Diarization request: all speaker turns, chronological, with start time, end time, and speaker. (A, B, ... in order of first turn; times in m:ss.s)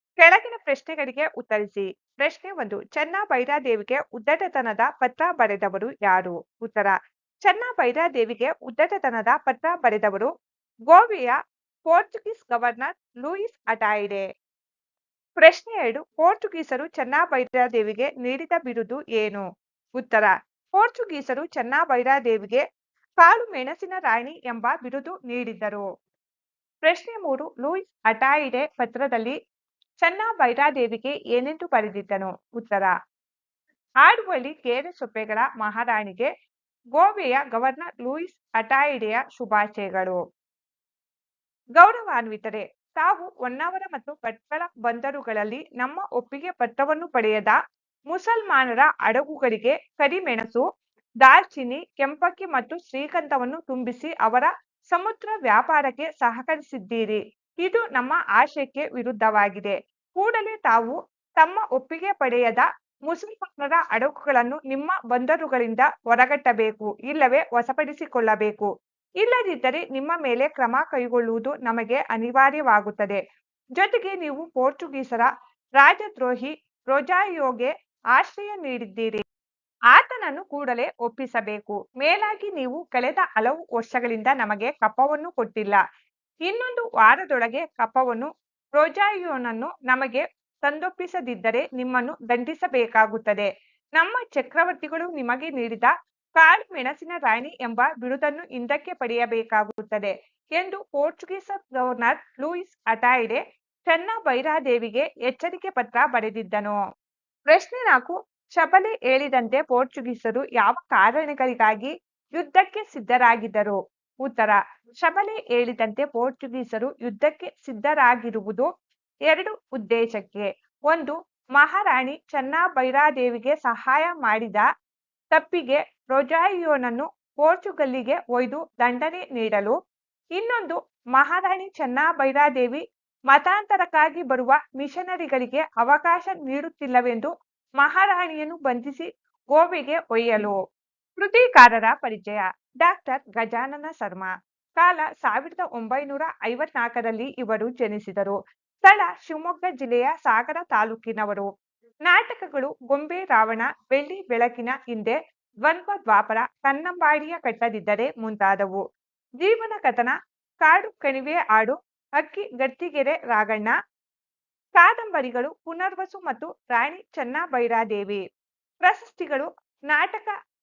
0:00.2-0:10.3 A
0:10.9-0:11.4 A
0:11.9-0:14.2 A
0:15.4-0:19.4 A
0:20.0-0:22.6 A
0:23.2-0:25.8 A
0:26.8-0:29.4 A
0:30.0-0:32.9 A
0:34.0-0:36.3 A
0:37.0-0:40.2 A
0:41.8-0:47.5 A
0:48.1-0:50.6 A
0:51.2-1:08.7 A
1:09.2-1:13.2 A
1:13.8-1:15.3 A
1:15.8-1:19.2 A
1:19.9-1:25.8 A
1:26.4-1:46.8 A
1:47.5-1:58.7 A
1:59.3-2:04.6 A
2:05.3-2:09.7 A
2:10.3-2:17.3 A
2:17.8-2:20.6 A
2:21.2-2:31.5 A
2:32.1-2:38.8 A
2:39.4-2:43.7 A
2:44.8-2:48.2 A
2:48.8-2:50.3 A